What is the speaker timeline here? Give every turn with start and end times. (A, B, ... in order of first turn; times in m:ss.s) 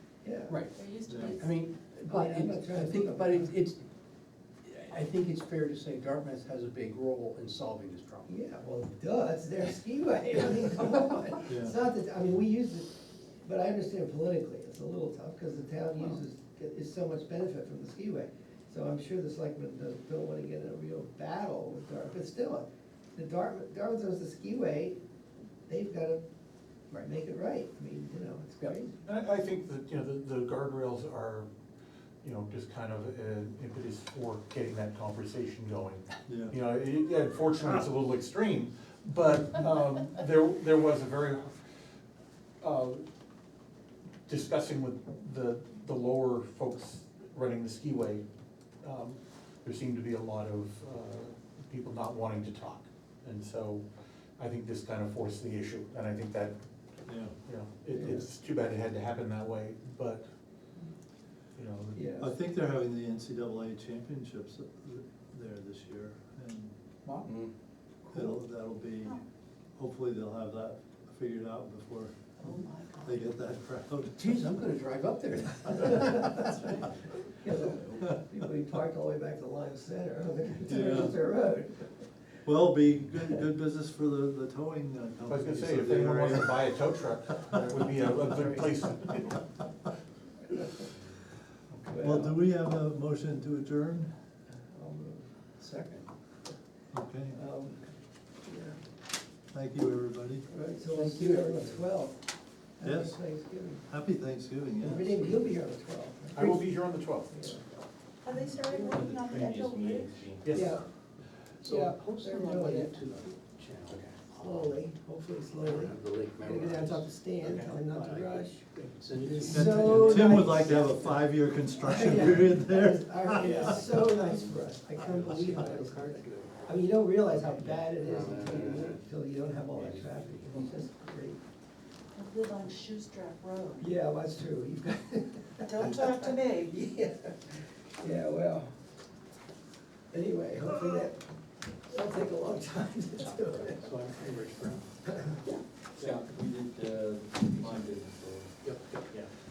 0:00.2-0:00.6 A
0:00.5-0:03.8 B
0:00.7-0:01.6 C
0:01.1-0:01.4 D
0:02.1-0:03.5 A
0:04.6-0:08.3 B
0:08.2-0:25.0 A
0:11.4-0:11.8 D
0:25.7-0:26.2 A
0:26.9-0:29.0 A
0:29.0-0:31.5 E
0:32.2-0:41.6 E
0:36.3-0:36.5 D
0:42.6-0:43.0 E
0:44.3-0:48.2 E
0:48.8-0:53.8 E
0:54.4-0:56.5 E
0:57.1-0:57.3 D
0:57.4-1:00.2 E
0:57.9-0:58.2 A
1:01.6-1:02.1 E
1:01.9-1:02.3 A
1:02.2-1:06.7 D
1:07.2-1:07.5 B
1:08.1-1:09.2 D
1:09.8-1:14.3 D
1:12.4-1:13.2 C
1:14.2-1:16.8 B
1:17.4-1:21.8 A
1:17.7-1:17.9 B
1:20.7-1:21.2 D
1:22.4-1:26.6 D
1:25.3-1:29.4 E
1:31.8-1:32.3 A
1:32.0-1:34.1 D
1:34.5-1:35.2 A
1:35.6-1:36.1 B
1:36.9-1:37.4 D
1:37.3-1:37.8 A
1:38.4-1:38.8 A
1:39.5-1:40.4 D
1:40.5-1:42.2 A
1:40.8-1:41.8 B
1:42.8-1:43.8 A
1:42.8-1:43.2 D
1:43.9-1:45.3 D
1:44.8-1:47.8 A
1:46.3-1:47.5 E
1:48.2-1:50.2 C
1:48.8-1:50.6 F
1:50.4-1:50.8 E
1:50.5-1:50.8 A
1:51.6-1:54.8 B
1:51.6-1:53.0 A
1:54.3-2:00.8 A
1:55.6-2:01.2 B
1:59.5-2:03.8 D
2:01.8-2:11.4 A
2:03.4-2:04.4 B
2:05.0-2:06.5 B
2:07.4-2:09.0 B
2:09.8-2:10.8 B
2:12.2-2:13.8 C
2:13.8-2:18.7 A
2:15.6-2:16.8 C
2:20.1-2:21.2 A
2:21.9-2:24.0 A
2:23.3-2:24.8 B
2:25.0-2:25.5 A
2:26.0-2:28.5 F
2:28.6-2:29.0 B